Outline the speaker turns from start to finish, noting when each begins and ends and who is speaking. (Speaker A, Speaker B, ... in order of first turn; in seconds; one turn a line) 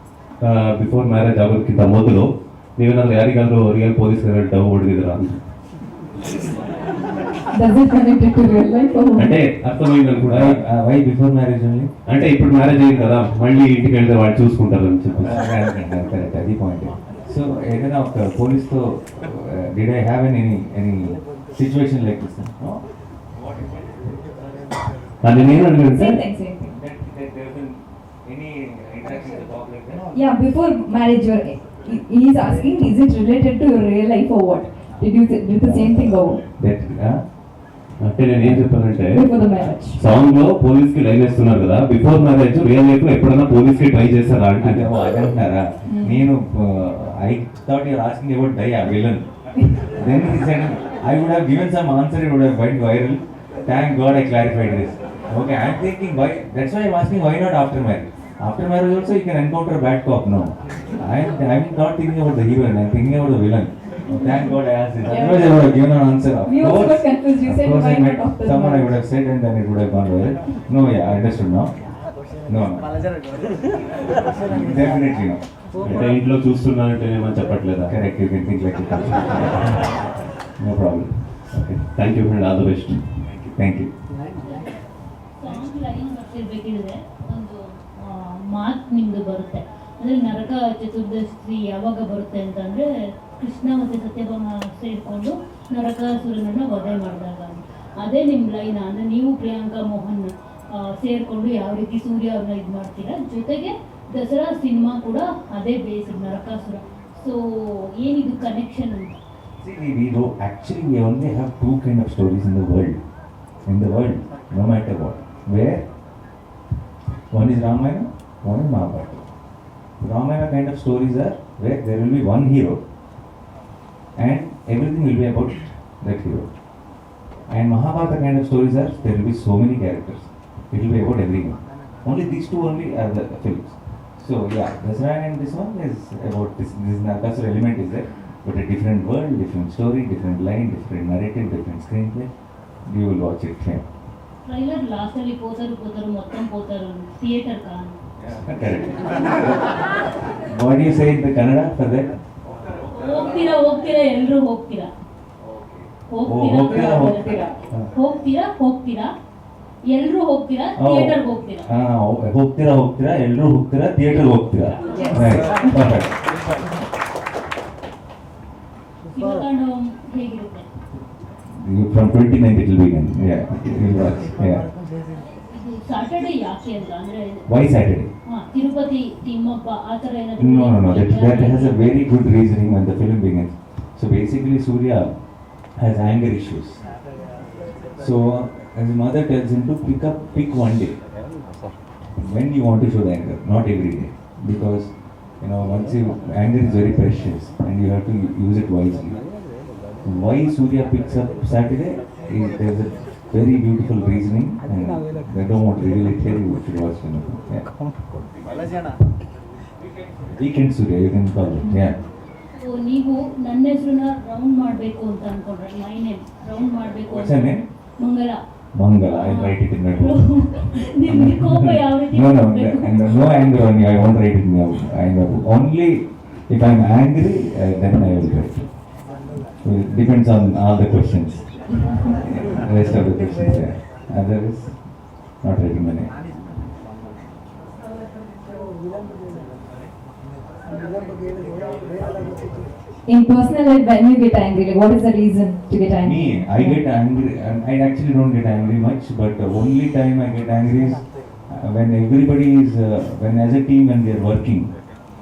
Speaker A: 0.4-5.4
Speaker B: 7.5-9.4
Speaker A: 9.2-10.6
Speaker C: 10.3-13.2
Speaker A: 12.1-15.5
Speaker C: 15.2-24.2
Speaker A: 25.2-26.2
Speaker B: 25.9-26.6
Speaker C: 26.6-30.0
Speaker B: 30.1-36.4
Speaker C: 35.6-37.3
Speaker A: 38.0-44.9
Speaker C: 38.4-38.9
Speaker B: 39.1-40.0
Speaker C: 44.6-71.7
Speaker B: 45.9-46.2
Speaker B: 65.0-65.8
Speaker B: 66.4-68.9
Speaker C: 72.5-72.9
Speaker C: 74.4-76.0
Speaker A: 75.8-77.9
Speaker C: 77.9-79.8
Speaker C: 80.6-81.6
Speaker A: 81.5-83.1
Speaker C: 83.2-83.9
Speaker D: 84.4-84.8
Speaker D: 85.4-92.9
Speaker D: 93.4-100.3
Speaker D: 101.0-109.2
Speaker C: 109.6-113.0
Speaker C: 113.6-115.9
Speaker C: 117.3-119.3
Speaker C: 120.0-122.8
Speaker C: 124.2-126.5
Speaker C: 127.5-142.3
Speaker C: 142.8-143.8
Speaker D: 144.4-147.9
Speaker C: 148.2-149.5
Speaker C: 150.4-152.1
Speaker D: 152.9-154.9
Speaker C: 155.4-157.9
Speaker D: 156.1-159.1
Speaker B: 156.7-157.5
Speaker D: 159.9-161.7
Speaker C: 160.8-166.1
Speaker D: 164.8-165.1
Speaker B: 164.9-165.8
Speaker D: 169.1-170.7
Speaker C: 171.5-174.7
Speaker D: 175.4-177.4
Speaker C: 177.5-178.1
Speaker D: 178.3-181.8
Speaker C: 180.4-186.8
Speaker C: 188.0-191.0
Speaker C: 192.2-199.3
Speaker C: 200.0-207.7
Speaker C: 210.3-212.0
Speaker D: 212.6-218.3
Speaker C: 217.1-217.6
Speaker C: 218.8-228.9
Speaker D: 219.0-223.4
Speaker C: 229.6-236.1
Speaker B: 243.1-246.8
Speaker C: 246.0-254.9